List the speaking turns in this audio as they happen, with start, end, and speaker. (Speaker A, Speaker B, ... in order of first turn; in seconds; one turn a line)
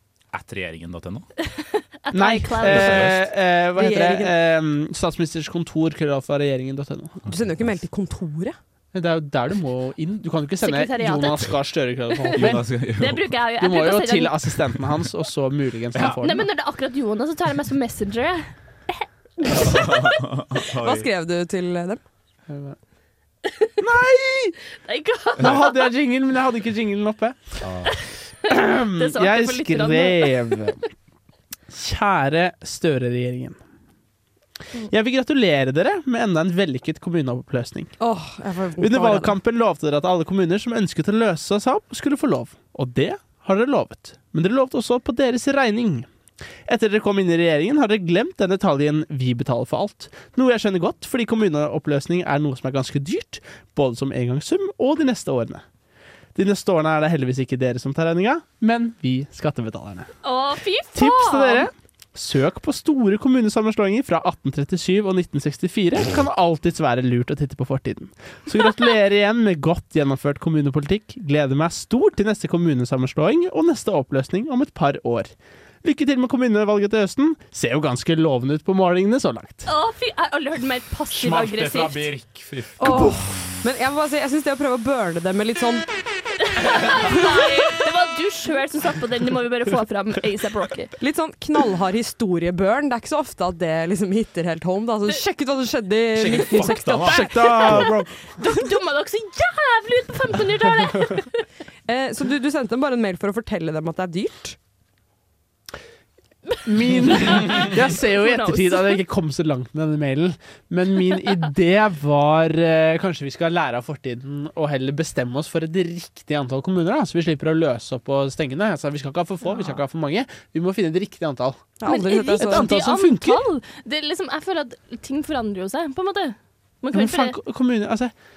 Speaker A: 0.3-1.3
Speaker B: 1.5-3.1
Speaker C: 2.1-7.2
Speaker A: 2.6-3.3
Speaker D: 3.8-4.3
Speaker D: 7.3-8.6
Speaker A: 7.3-7.7
Speaker C: 8.9-12.6
Speaker B: 10.6-11.5
Speaker B: 12.1-14.4
Speaker A: 12.3-13.3
Speaker C: 13.6-16.5
Speaker B: 16.0-20.1
Speaker A: 19.5-21.1
Speaker D: 20.8-22.0
Speaker C: 22.5-22.8
Speaker C: 23.8-24.6
Speaker B: 24.8-25.9
Speaker C: 25.4-27.4
Speaker A: 27.6-27.9
Speaker C: 28.4-30.8
Speaker B: 28.8-30.7
Speaker C: 31.7-33.6
Speaker C: 34.9-37.9
Speaker D: 38.0-39.4
Speaker C: 38.8-46.1
Speaker C: 46.7-55.6
Speaker C: 56.4-60.1
Speaker B: 60.2-61.7
Speaker C: 60.9-75.3
Speaker C: 75.8-79.7
Speaker B: 79.7-82.1
Speaker A: 81.1-83.6
Speaker D: 82.8-85.8
Speaker B: 86.4-90.9
Speaker D: 87.0-87.3
Speaker D: 91.0-97.8
Speaker A: 96.1-97.9
Speaker C: 97.0-98.1
Speaker B: 98.3-101.4
Speaker D: 101.9-104.6
Speaker B: 106.5-109.0
Speaker C: 106.6-121.8
Speaker D: 121.8-122.7
Speaker B: 121.8-127.3
Speaker C: 122.4-123.4
Speaker C: 126.9-128.1